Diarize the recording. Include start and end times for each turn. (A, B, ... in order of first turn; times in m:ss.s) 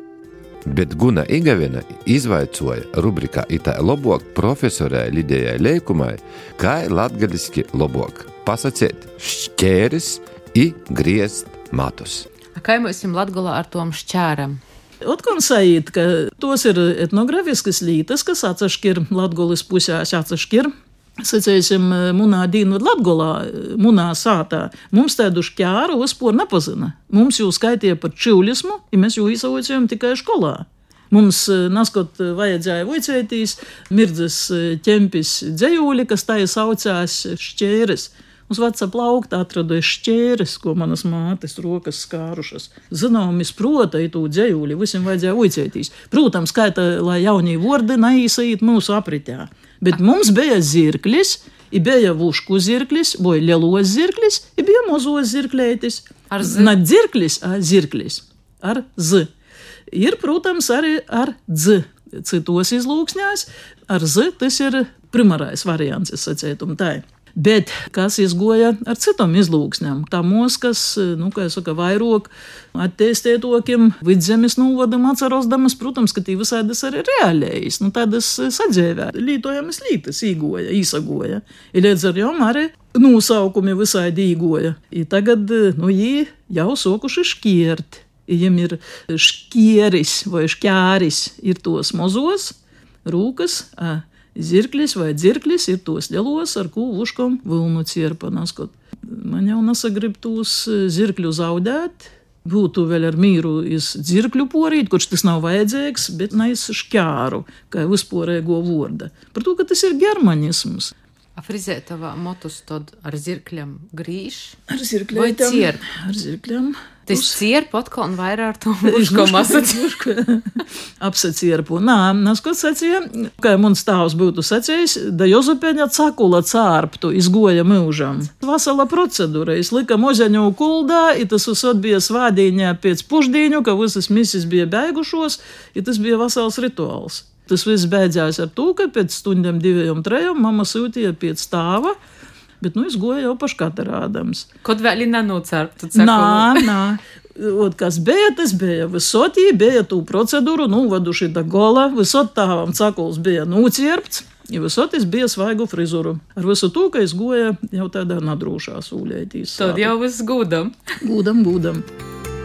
0:00.7-0:12.3 A
0:12.6-0:14.6 B
0:15.0-0:59.3 C
0:56.3-0:56.7 B
0:59.9-1:50.9 C
1:51.4-1:54.6 B
1:54.7-1:57.4 C
1:55.1-1:55.8 B
1:57.1-2:00.0 B
1:58.8-2:22.0 C
2:22.6-2:24.5 C
2:24.6-2:26.8 B
2:26.0-2:39.9 C
2:39.6-2:40.8 B
2:41.0-2:41.8 C